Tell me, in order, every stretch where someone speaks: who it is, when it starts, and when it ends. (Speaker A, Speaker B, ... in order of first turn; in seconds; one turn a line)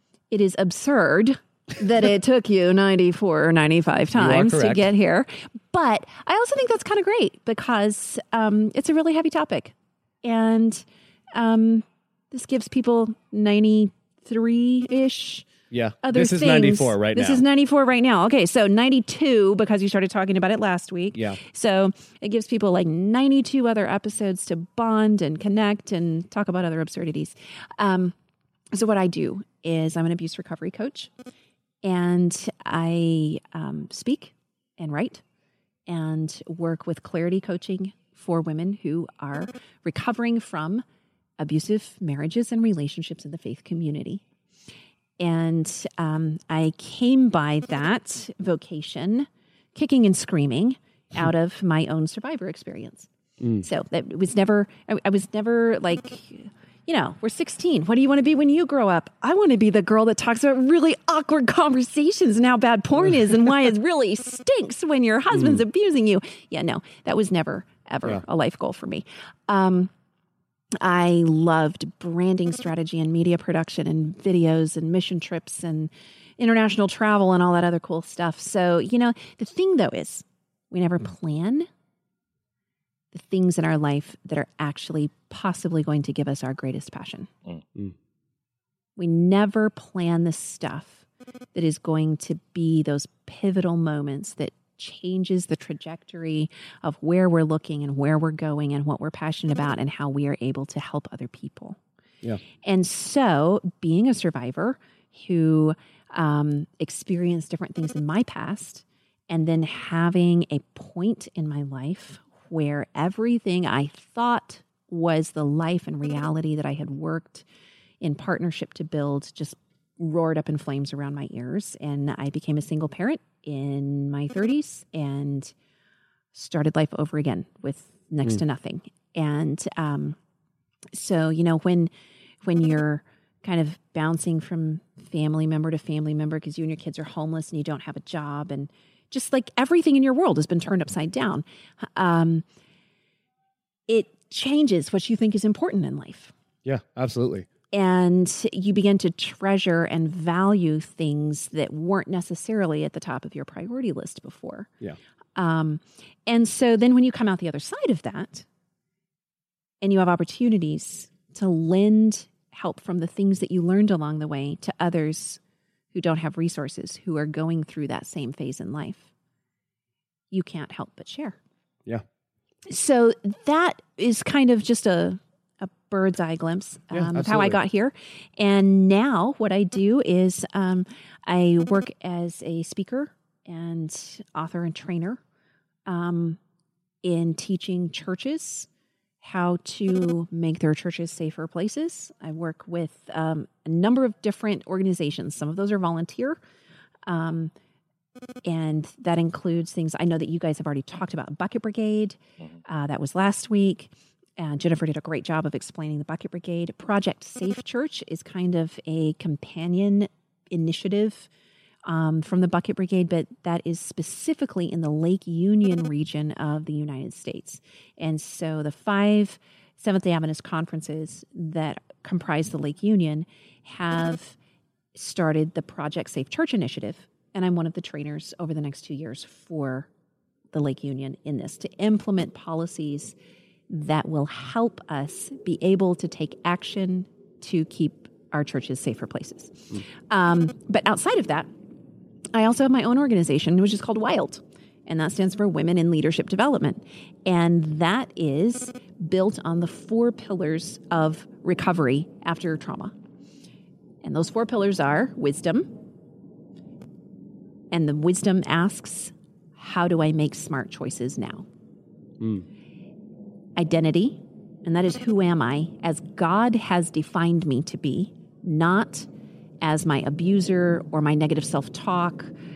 Speaker A: 0.3-15.5
Speaker B: 4.2-4.9
Speaker B: 15.7-17.4
Speaker A: 16.0-28.1
Speaker A: 28.7-31.1
Speaker A: 31.8-35.2
Speaker A: 35.9-40.8
Speaker A: 41.4-44.2
Speaker A: 45.2-53.1
Speaker B: 53.4-53.6
Speaker A: 53.6-69.9
Speaker B: 65.3-65.6
Speaker A: 70.8-81.7
Speaker A: 83.1-87.3
Speaker A: 89.0-101.8
Speaker A: 102.6-117.5
Speaker A: 118.0-125.5
Speaker A: 126.3-130.2
Speaker A: 130.9-131.9
Speaker A: 132.4-142.4
Speaker A: 143.9-146.3
Speaker B: 146.7-147.5
Speaker A: 147.7-154.7
Speaker A: 155.4-158.5
Speaker A: 159.8-165.4
Speaker A: 165.9-169.1
Speaker A: 170.3-171.4
Speaker A: 172.7-185.2
Speaker B: 176.9-177.6
Speaker A: 185.9-186.4
Speaker A: 187.0-188.7
Speaker A: 189.2-196.4
Speaker A: 197.1-197.5
Speaker A: 198.4-211.3
Speaker A: 211.8-224.4
Speaker A: 224.9-229.9
Speaker A: 230.5-233.2
Speaker A: 233.7-241.5
Speaker A: 242.3-252.9
Speaker A: 254.0-255.7
Speaker A: 257.7-261.5
Speaker B: 262.2-262.4
Speaker A: 263.6-269.1
Speaker A: 269.6-272.3